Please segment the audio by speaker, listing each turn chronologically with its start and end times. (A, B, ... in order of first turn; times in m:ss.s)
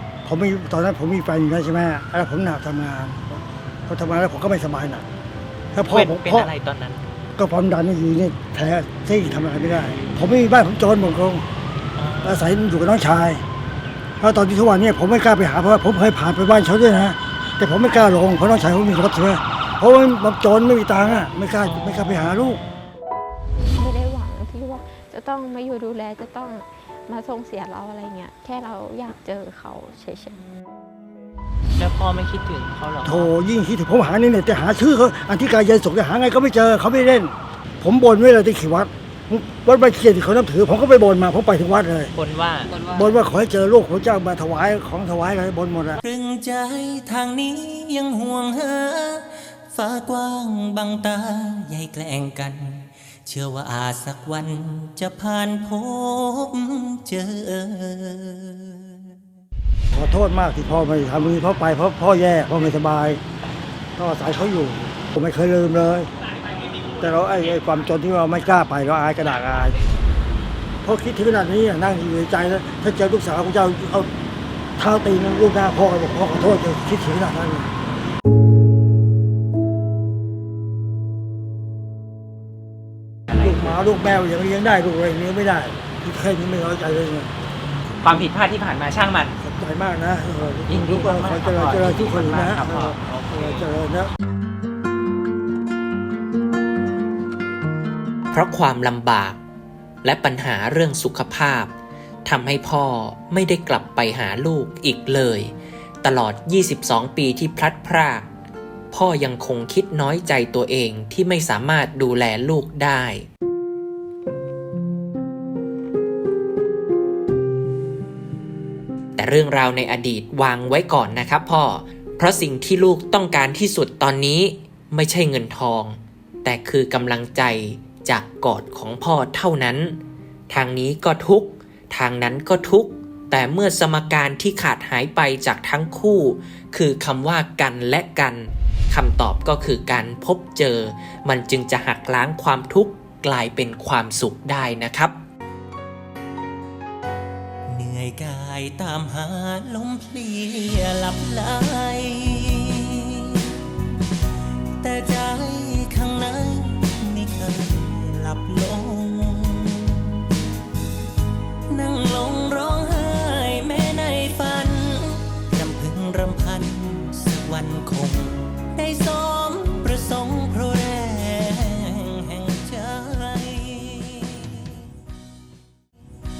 0:00.2-0:05.0 A
0:05.7-0:06.5 A
0:05.8-0:07.0 B
0:07.4-0:11.4 A
0:12.0-0:12.3 B
0:12.2-0:13.4 A
0:14.2-0:22.6 A
0:23.6-0:30.3 C
0:31.8-0:33.3 B
0:33.0-0:42.1 A
0:42.1-0:42.8 B
0:42.9-0:46.0 A
0:46.0-0:59.1 D
0:59.9-1:03.2 A
1:04.0-1:06.1 A
1:07.0-1:09.8 A
1:10.8-1:14.1 A
1:14.8-1:17.7 A
1:23.3-1:23.6 B
1:23.4-1:27.3 A
1:28.0-1:29.3 B
1:29.4-1:34.1 A
1:30.7-1:33.6 B
1:38.3-1:39.4 E
1:40.0-1:41.7 E
1:42.2-1:48.3 E
1:48.9-1:53.3 E
1:59.2-2:25.1 E
2:27.7-2:33.6 D
2:34.8-2:40.2 D
2:41.7-2:54.8 D